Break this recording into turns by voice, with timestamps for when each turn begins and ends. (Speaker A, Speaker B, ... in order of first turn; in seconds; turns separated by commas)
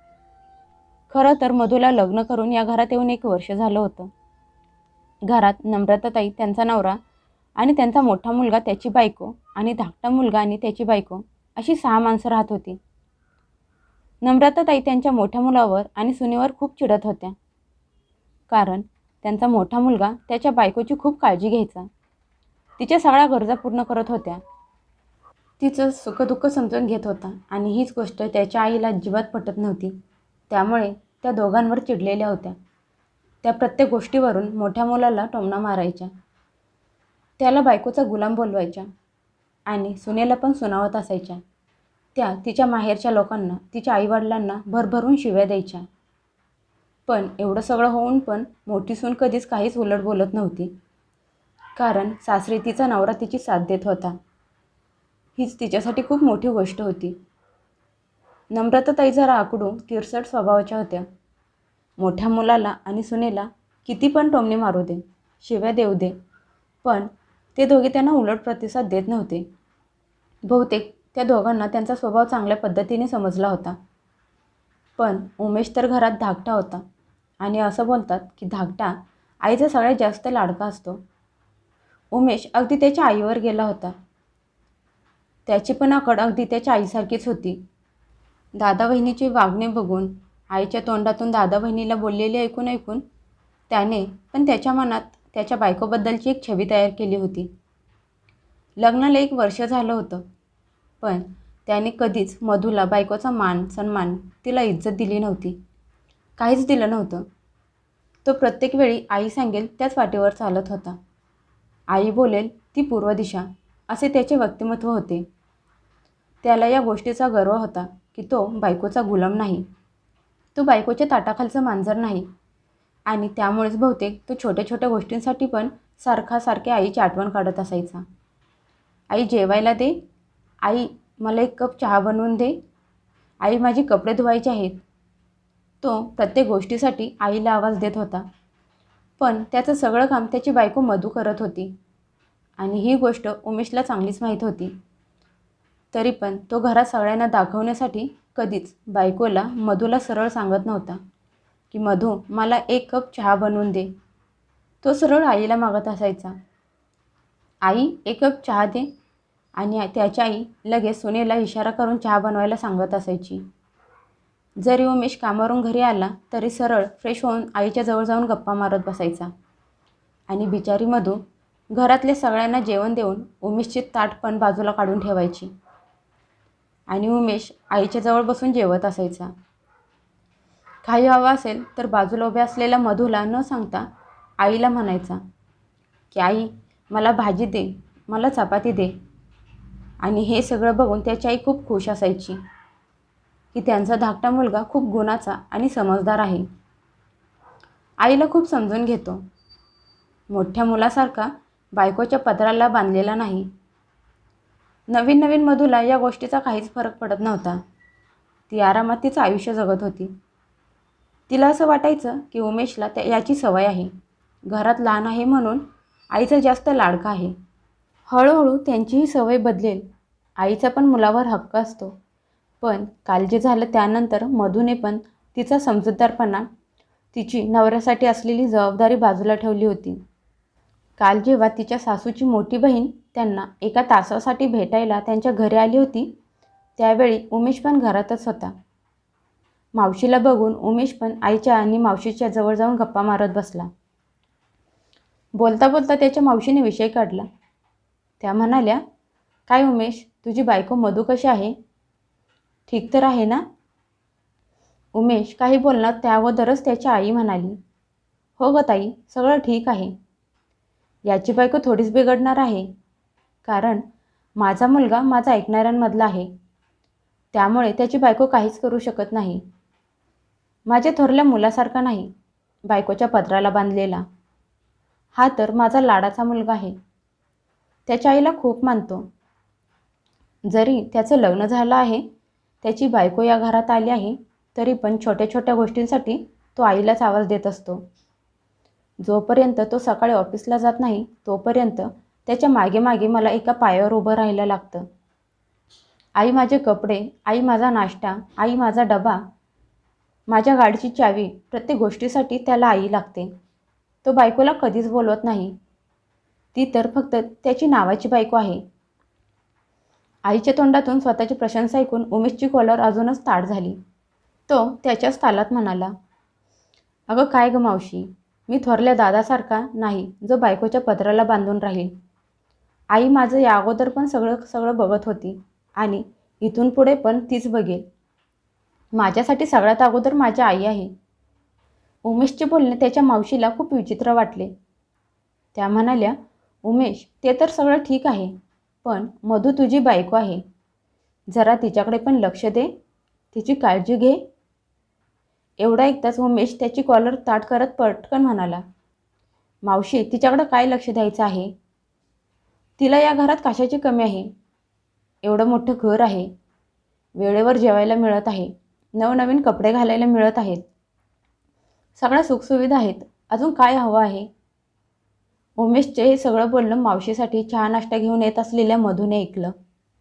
Speaker A: 1.1-4.1, Speaker A: 5.2-7.0, Speaker A: 7.6-12.8, Speaker A: 14.2-17.4, Speaker A: 18.5-21.9, Speaker A: 22.8-24.4, Speaker A: 25.6-29.9, Speaker A: 30.5-32.5, Speaker A: 33.4-36.1, Speaker A: 37.4-38.9, Speaker A: 39.7-41.4, Speaker A: 42.1-45.9, Speaker A: 47.1-50.7, Speaker A: 51.8-54.2, Speaker A: 55.4-57.2, Speaker A: 58.5-61.0, Speaker A: 62.0-66.2, Speaker A: 66.8-69.5, Speaker A: 70.5-73.8, Speaker A: 75.0-76.8, Speaker A: 77.4-81.0, Speaker A: 82.1-83.9, Speaker A: 85.5-87.6, Speaker A: 88.5-93.0, Speaker A: 93.7-97.5, Speaker A: 98.8-100.2, Speaker A: 101.0-105.6, Speaker A: 106.4-107.2, Speaker A: 108.2-111.0, Speaker A: 111.9-115.3, Speaker A: 116.4-119.7, Speaker A: 120.5-122.3, Speaker A: 123.1-128.0, Speaker A: 129.1-130.0, Speaker A: 130.6-132.6, Speaker A: 133.4-134.8, Speaker A: 135.8-138.2, Speaker A: 139.2-141.7, Speaker A: 142.6-144.7, Speaker A: 145.9-151.0, Speaker A: 151.7-153.9, Speaker A: 154.8-156.3, Speaker A: 157.6-158.9, Speaker A: 159.6-163.4, Speaker A: 164.6-169.3, Speaker A: 170.3-175.5, Speaker A: 176.9-179.3, Speaker A: 180.8-183.8, Speaker A: 184.4-185.2, Speaker A: 186.1-188.9, Speaker A: 190.0-192.4, Speaker A: 193.5-196.4, Speaker A: 198.0-199.2, Speaker A: 200.3-203.5, Speaker A: 204.9-207.6, Speaker A: 208.5-210.1, Speaker A: 211.3-213.9, Speaker A: 214.5-217.3, Speaker A: 218.1-219.8, Speaker A: 220.4-221.9, Speaker A: 222.6-226.4, Speaker A: 227.1-230.0, Speaker A: 231.0-236.1, Speaker A: 236.8-238.5, Speaker A: 239.8-243.7, Speaker A: 245.3-247.2, Speaker A: 248.2-248.8, Speaker A: 249.5-251.5, Speaker A: 252.7-253.4, Speaker A: 254.9-257.6, Speaker A: 258.4-259.9, Speaker A: 261.0-262.7, Speaker A: 263.4-263.8, Speaker A: 264.4-266.3, Speaker A: 267.3-269.4, Speaker A: 270.7-272.1, Speaker A: 272.7-274.0, Speaker A: 275.1-276.7, Speaker A: 277.9-279.1, Speaker A: 280.5-282.0, Speaker A: 282.6-287.9, Speaker A: 289.0-294.9, Speaker A: 296.2-299.2, Speaker A: 300.3-303.3, Speaker A: 304.0-305.5, Speaker A: 306.5-308.6, Speaker A: 310.2-313.8, Speaker A: 314.5-315.9, Speaker A: 317.1-321.9, Speaker A: 322.9-327.8, Speaker A: 328.9-330.9, Speaker A: 332.0-334.5, Speaker A: 335.5-338.3, Speaker A: 338.8-340.4, Speaker A: 341.3-342.7, Speaker A: 343.3-344.2, Speaker A: 345.6-348.6, Speaker A: 349.6-351.5, Speaker A: 352.8-354.3, Speaker A: 355.2-356.3, Speaker A: 357.1-360.6, Speaker A: 362.0-364.3, Speaker A: 365.6-369.5